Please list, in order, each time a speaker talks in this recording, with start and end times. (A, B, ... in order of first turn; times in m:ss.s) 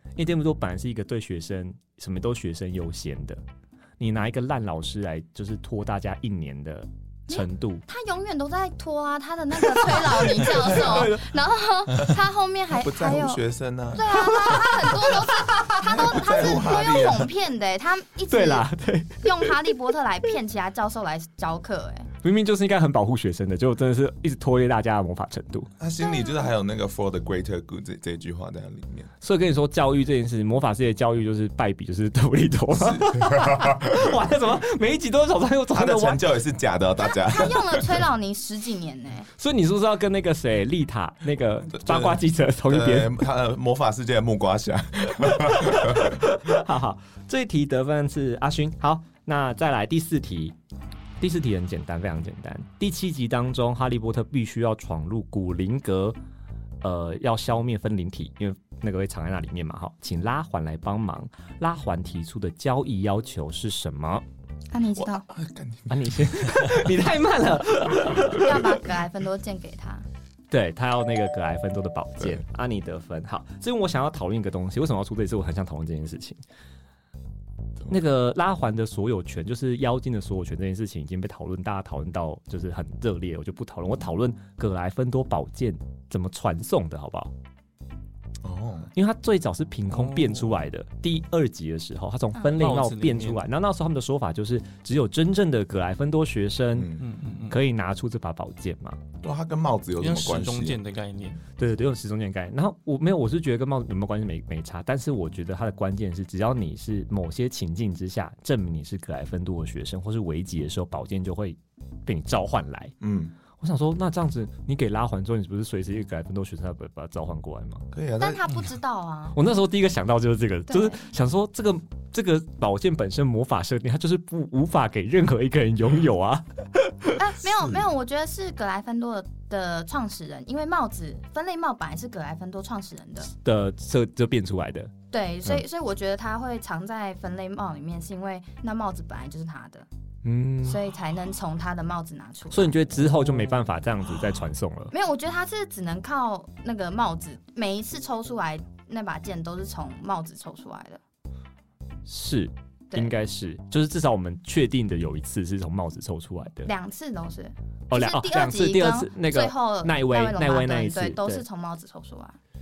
0:00.2-0:03.4 A
0:04.0-0:07.8 A
0:07.3-0:13.4 B
0:09.7-0:11.3 A
0:10.8-0:11.0 C
0:12.7-0:14.8 C
0:13.9-0:18.7 B
0:15.9-0:17.3 C
0:18.3-0:19.9 A
0:19.2-0:22.1 B
0:22.2-0:25.7 A
0:25.8-0:29.1 C
0:26.0-0:26.4 B
0:29.2-0:36.2 A
0:32.8-0:33.9 C
0:35.7-0:38.0 C
0:37.1-0:39.3 B
0:39.4-0:43.1 A
0:41.7-0:46.2 C
0:45.2-0:50.6 A
0:51.2-0:56.2 A
0:56.8-1:04.2 A
1:04.7-1:05.3 B
1:04.9-1:06.9 C
1:05.9-1:08.7 A
1:08.2-1:10.0 B
1:10.5-1:16.4 A
1:17.9-1:27.3 A
1:28.4-1:28.9 C
1:28.9-1:36.9 A
1:29.9-1:30.5 D
1:32.6-1:33.4 D
1:36.7-1:37.0 C
1:37.0-1:37.6 D
1:37.5-1:39.0 A
1:39.2-1:40.8 C
1:40.0-1:41.4 D
1:41.6-1:53.0 A
1:53.0-1:53.3 C
1:53.6-1:57.8 A
1:57.9-1:58.5 C
1:58.2-1:59.4 B
1:59.4-2:07.2 A
2:00.7-2:01.0 B
2:07.2-2:13.3 B
2:07.5-2:07.8 C
2:13.3-2:14.9 A
2:15.1-2:19.9 B
2:20.2-2:20.8 A
2:20.6-2:22.7 B
2:22.5-2:24.9 A
2:24.9-2:31.0 B
2:32.1-2:36.7 A
2:36.6-2:42.4 B
2:37.9-2:41.4 A